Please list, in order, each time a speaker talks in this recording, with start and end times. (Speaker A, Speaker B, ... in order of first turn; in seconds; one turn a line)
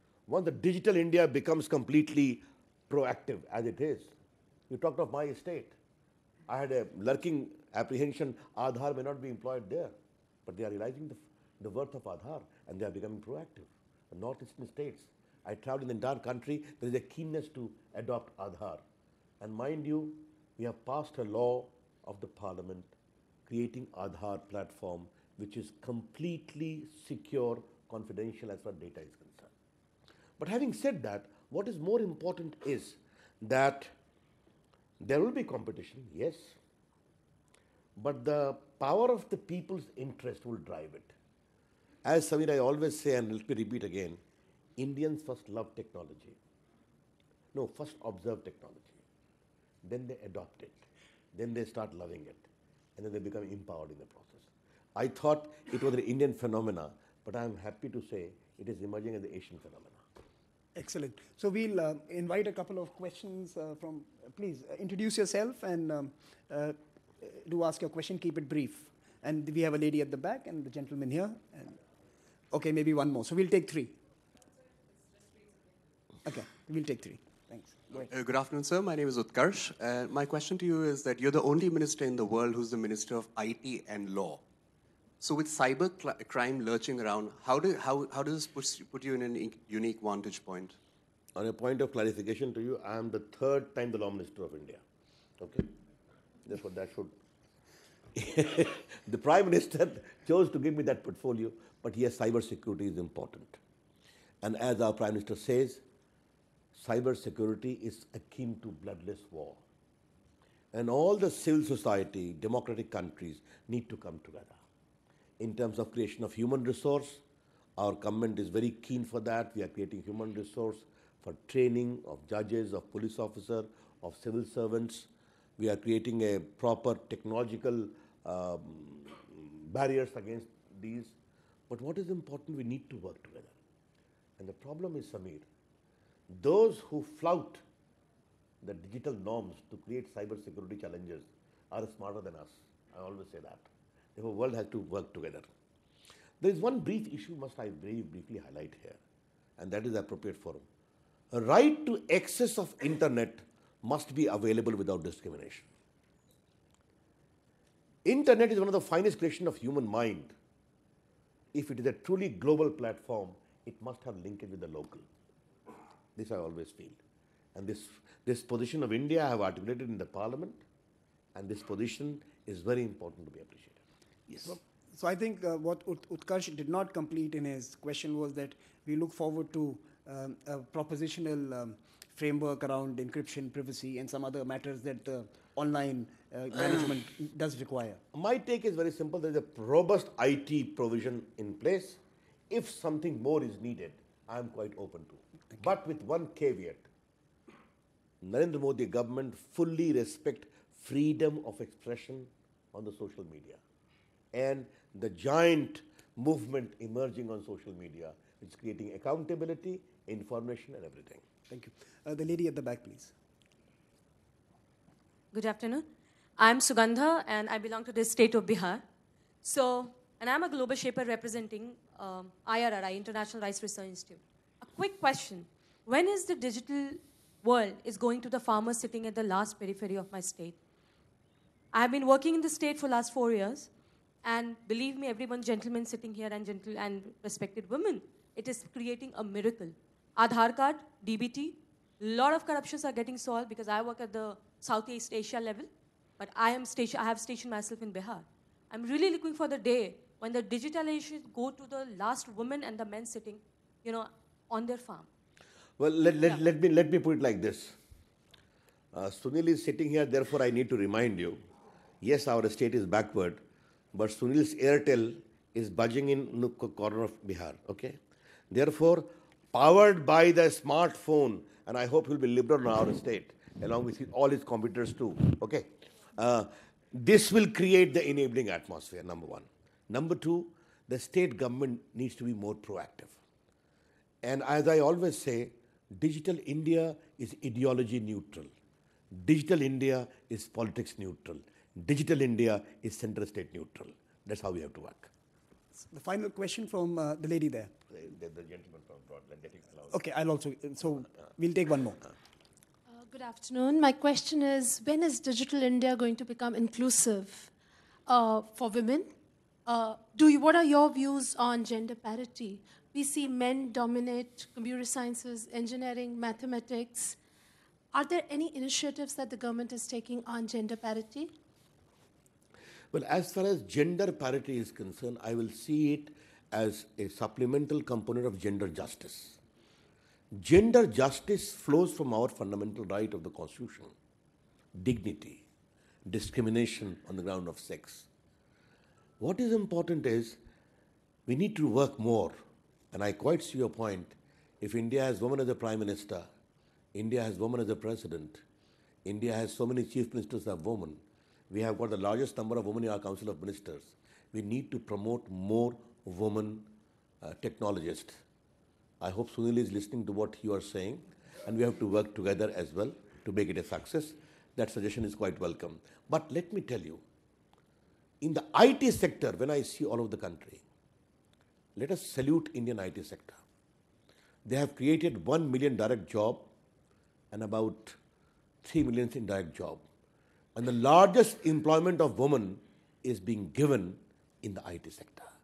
Speaker A: 0.3-4.1
Speaker A: 4.7-5.8
Speaker A: 6.5-9.9
Speaker A: 10.5-18.8
Speaker A: 19.4-22.9
Speaker A: 23.5-29.5
Speaker A: 30.4-33.9
Speaker A: 35.0-36.6
Speaker A: 38.0-41.1
Speaker A: 42.0-44.2
Speaker A: 44.8-46.4
Speaker A: 47.5-49.0
Speaker A: 49.8-60.0
Speaker B: 60.8-71.8
Speaker B: 72.5-74.0
Speaker B: 76.2-78.1
Speaker C: 77.9-84.4
Speaker C: 85.2-90.8
Speaker A: 91.4-94.8
Speaker A: 95.4-95.7
Speaker A: 96.5-97.1
Speaker A: 98.2-103.6
Speaker A: 104.4-105.8
Speaker A: 106.7-109.6
Speaker A: 110.7-114.6
Speaker A: 115.4-117.2
Speaker A: 117.8-131.2
Speaker A: 131.7-133.6
Speaker A: 134.4-135.4
Speaker A: 136.3-137.6
Speaker A: 138.6-145.5
Speaker A: 146.4-149.0
Speaker A: 149.6-150.7
Speaker A: 151.3-155.7
Speaker A: 158.1-160.3
Speaker A: 161.5-165.1
Speaker A: 166.2-167.0
Speaker A: 167.6-170.6
Speaker A: 171.3-174.6
Speaker B: 174.5-188.0
Speaker A: 188.1-196.9
Speaker A: 198.2-203.6
Speaker A: 204.3-211.2
Speaker B: 211.5-213.1
Speaker D: 215.3-215.8
Speaker D: 216.4-218.8
Speaker D: 219.4-230.6
Speaker D: 231.7-233.7
Speaker D: 234.2-245.7
Speaker D: 246.2-255.1
Speaker A: 255.8-257.8
Speaker A: 258.9-261.4
Speaker A: 262.0-263.4
Speaker A: 263.9-268.0
Speaker A: 268.5-283.2
Speaker A: 284.2-288.5
Speaker A: 289.1-295.1
Speaker B: 295.7-297.7
Speaker A: 297.9-300.0
Speaker B: 299.9-302.0
Speaker E: 302.9-307.5
Speaker E: 308.1-309.1
Speaker E: 309.7-317.2
Speaker E: 317.9-321.3
Speaker A: 322.9-329.4
Speaker A: 330.4-333.9
Speaker A: 334.8-335.4
Speaker A: 336.1-338.1
Speaker A: 339.2-340.4
Speaker A: 341.3-342.4
Speaker A: 342.9-346.3
Speaker A: 346.9-348.4
Speaker A: 349.1-356.7
Speaker A: 357.2-358.2
Speaker A: 359.0-367.0
Speaker A: 368.2-370.6
Speaker A: 371.8-373.4
Speaker A: 374.4-376.5
Speaker A: 377.3-378.0
Speaker A: 378.6-379.8
Speaker A: 380.6-385.3